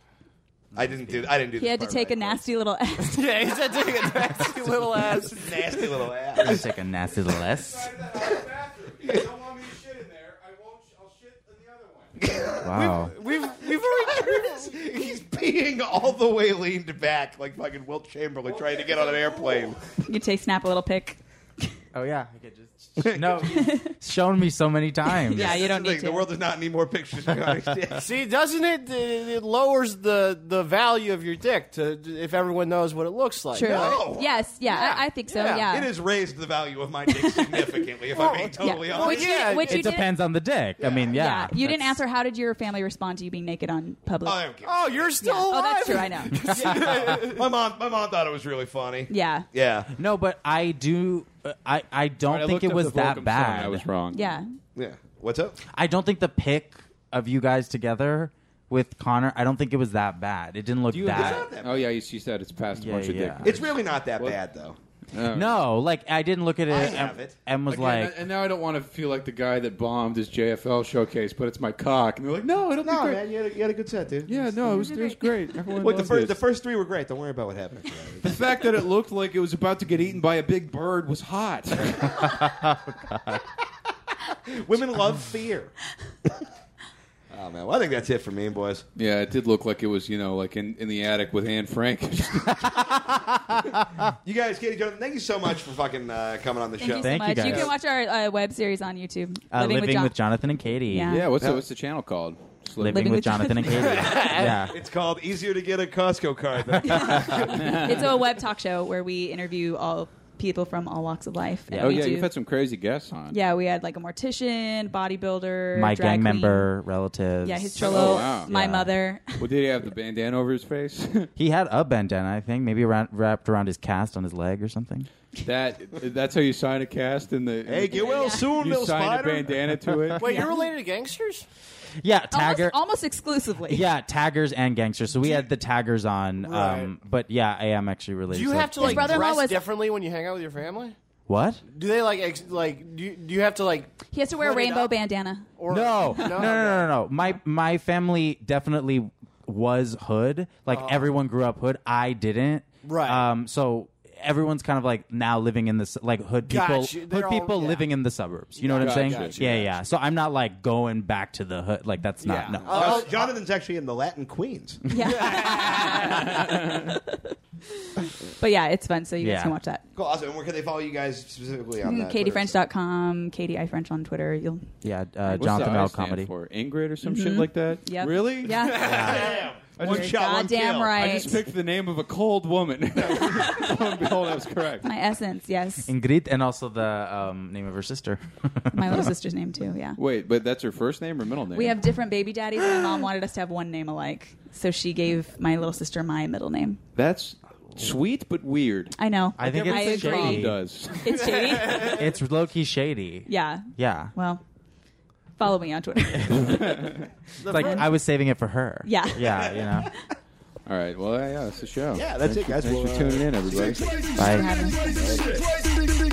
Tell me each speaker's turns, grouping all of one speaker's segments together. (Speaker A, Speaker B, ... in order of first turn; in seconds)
Speaker A: 0.8-2.4, 5.3-6.7, 12.2-12.8, 13.6-19.8, 23.0-23.6, 25.3-28.1, 33.6-34.5, 35.6-39.6, 40.8-41.1, 44.2-45.2, 46.6-49.9, 54.8-55.6, 61.0-61.9, 63.4-64.8, 66.7-67.4, 72.8-74.4, 75.8-78.4, 84.5-85.7, 87.3-88.8, 94.2-97.7, 104.7-108.0, 127.7-129.8, 162.7-164.8, 169.9-172.6, 178.8-181.0, 211.9-214.2, 214.9-215.5
Speaker B: 0.8-1.3, 6.4-7.9, 12.6-13.2, 21.9-25.6, 39.6-42.0, 49.9-53.9, 55.7-61.5, 62.8-63.6, 65.3-68.2, 82.4-82.9, 92.6-94.1, 97.0-97.7, 99.5-101.2, 102.8-104.8, 106.7-107.6, 111.7-112.1, 115.8-118.9, 121.4-125.1, 132.0-132.8, 133.7-139.2, 141.3-141.6, 145.7-163.1, 169.2-169.6, 174.8-176.3, 178.8-179.3, 185.9-189.1, 199.4-200.6, 201.8-204.1, 207.5-209.9, 214.2-214.5
Speaker C: 1.6-3.5, 20.0-21.2, 23.5-23.9, 25.3-26.3, 33.5-35.9, 37.1-37.8, 38.6-40.1, 41.1-44.5, 45.2-46.7, 49.1-49.5, 54.1-54.5, 74.6-75.3, 96.8-100.1, 100.9-101.3, 102.9-104.0, 106.8-112.3, 113.3-116.7, 117.4-119.4, 127.9-128.5, 130.2-130.5, 132.3-133.9, 138.8-139.6, 144.1-145.5, 164.9-169.8, 171.8-174.7, 177.0-181.4, 183.2-183.7, 184.8-185.9, 188.7-190.0, 191.5-196.8, 199.0-202.0, 203.3-204.4, 205.4-206.9, 207.6-207.9, 208.8-209.5, 214.2-215.2
Speaker D: 3.1-5.7, 12.7-15.2, 28.0-34.1, 34.6-35.7, 38.1-39.9, 44.6-47.5, 103.7-104.7, 130.2-131.5, 136.4-136.9, 138.3-141.0, 141.7-144.9, 145.6-146.9, 150.7-151.1, 152.8-153.3, 156.4-157.9, 158.6-159.7, 162.2-163.3, 165.1-166.2, 179.0-179.3, 201.1-202.0, 207.4-207.9
Speaker E: 7.4-12.3, 52.3-54.4, 60.9-64.4, 65.1-65.7, 67.7-73.2, 74.3-76.4, 78.2-82.2, 89.0-93.0, 101.1-103.2, 111.8-113.4, 117.8-118.5, 119.3-121.3, 125.4-130.4, 158.8-159.4, 166.1-167.0, 175.3-179.2, 179.8-180.2, 181.0-184.9, 190.0-191.8, 197.0-201.2, 206.3-207.1, 210.7-213.8